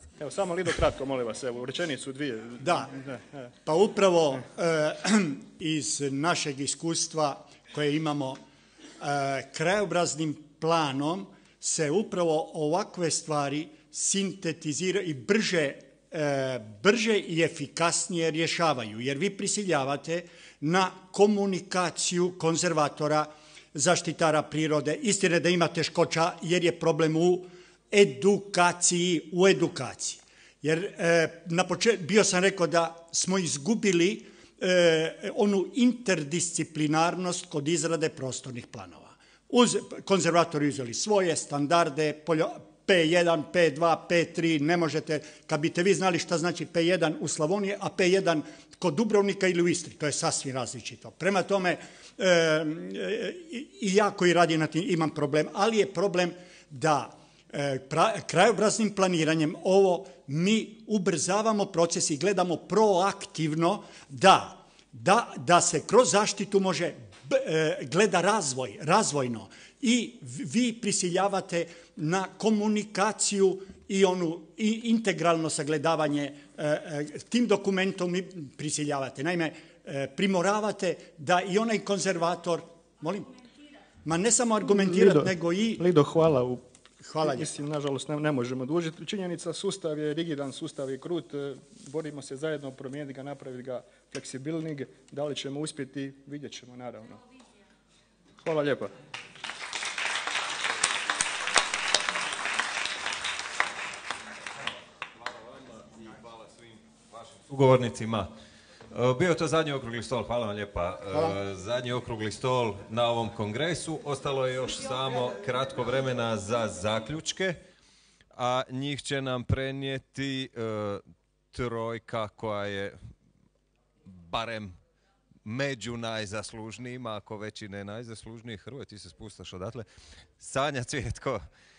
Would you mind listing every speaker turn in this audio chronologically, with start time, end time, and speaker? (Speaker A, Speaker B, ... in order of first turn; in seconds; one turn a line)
Speaker A: 0.2-3.5
Speaker B: 2.6-2.9
Speaker B: 3.6-8.4
Speaker B: 9.0-83.5
Speaker B: 84.0-85.8
Speaker A: 84.7-86.7
Speaker B: 87.0-87.5
Speaker A: 87.3-97.2
Speaker A: 98.4-99.0
Speaker C: 105.2-108.3
Speaker C: 108.9-117.6
Speaker C: 118.3-123.0
Speaker C: 124.0-124.8
Speaker C: 125.4-131.5